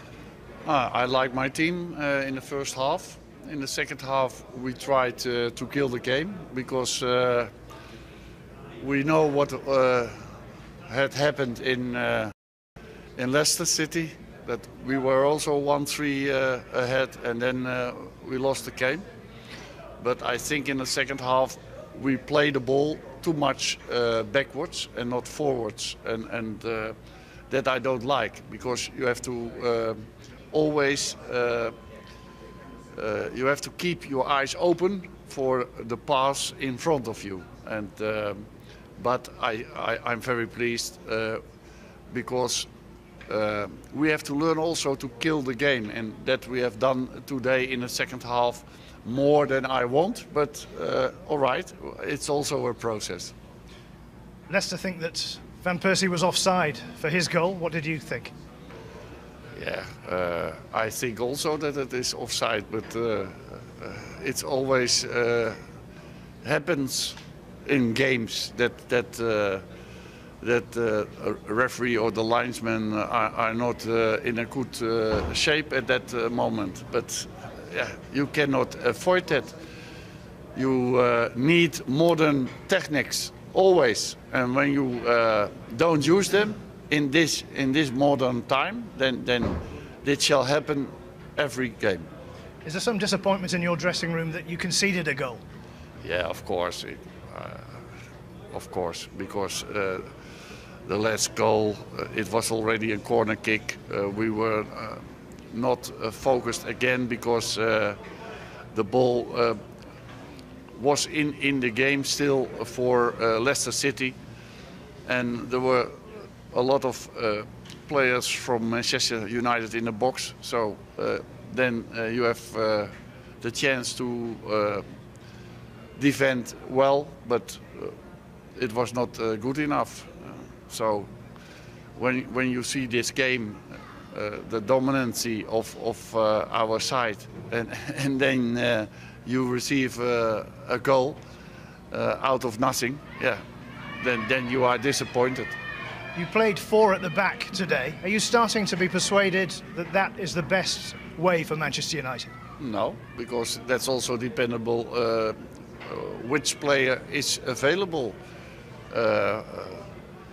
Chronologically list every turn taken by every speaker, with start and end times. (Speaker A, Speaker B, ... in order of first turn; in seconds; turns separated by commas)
Speaker A: 0.6-7.5, Speaker A: 8.8-10.2, Speaker A: 10.8-12.3, Speaker A: 13.2-19.0, Speaker A: 20.0-26.9, Speaker A: 27.5-31.7, Speaker A: 32.9-38.5, Speaker A: 39.0-41.4, Speaker A: 42.1-42.7, Speaker A: 43.3-53.3, Speaker B: 54.5-58.3, Speaker A: 59.5-65.6, Speaker A: 66.4-69.6, Speaker A: 70.4-79.5, Speaker A: 80.5-92.0, Speaker B: 92.6-95.4, Speaker A: 96.0-97.8, Speaker A: 98.5-100.0, Speaker A: 100.8-108.0, Speaker A: 108.7-109.6, Speaker A: 110.8-114.2, Speaker A: 115.0-124.8, Speaker A: 126.0-127.9, Speaker A: 128.6-131.1, Speaker A: 131.9-141.2, Speaker A: 141.9-143.4, Speaker A: 144.0-145.5, Speaker B: 146.1-152.3, Speaker A: 152.6-158.2, Speaker A: 158.9-159.8